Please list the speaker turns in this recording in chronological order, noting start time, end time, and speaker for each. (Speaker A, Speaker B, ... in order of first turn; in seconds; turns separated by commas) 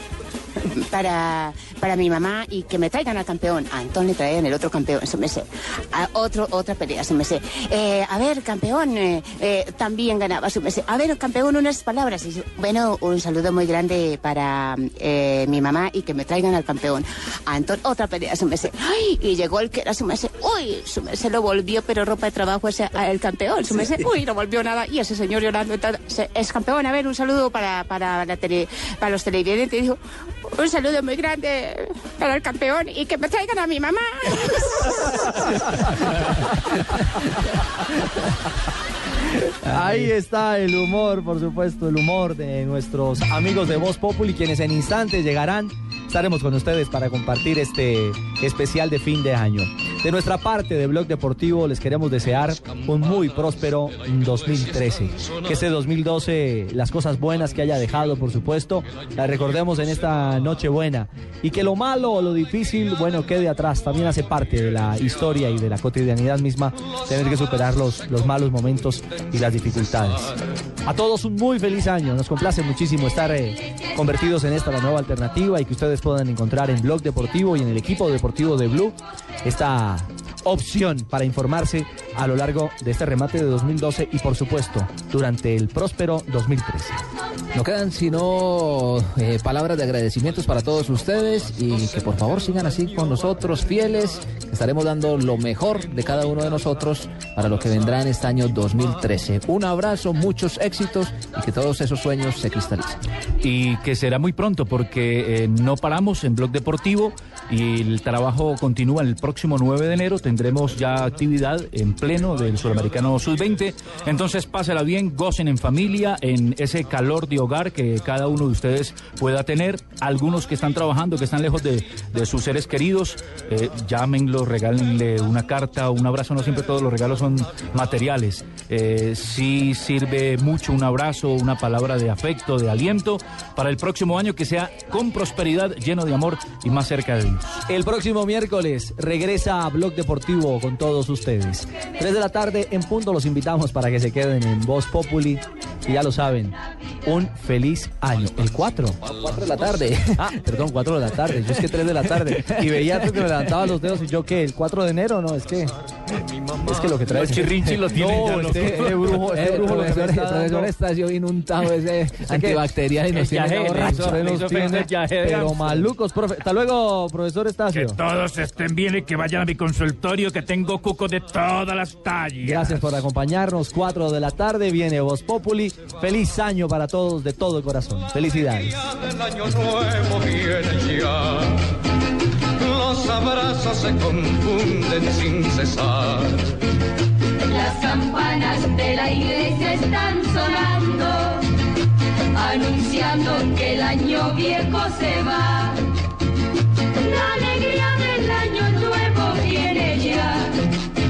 Speaker A: 0.9-30.0, Speaker A: 30.5-34.9, Speaker B: 39.6-70.3, Speaker B: 70.8-87.0, Speaker C: 87.5-103.0, Speaker D: 103.4-137.6, Speaker B: 137.7-149.0, Speaker C: 149.2-150.3, Speaker B: 150.2-155.7, Speaker C: 152.2-153.4, Speaker E: 156.1-156.8, Speaker B: 156.6-160.7, Speaker D: 157.1-159.4, Speaker C: 158.4-164.6, Speaker B: 162.3-162.6, Speaker D: 163.1-165.9, Speaker B: 163.7-168.0, Speaker F: 167.7-173.1, Speaker B: 172.4-178.8, Speaker E: 178.9-181.6, Speaker E: 182.6-186.6, Speaker G: 187.4-191.5, Speaker G: 192.3-195.8, Speaker G: 197.0-200.6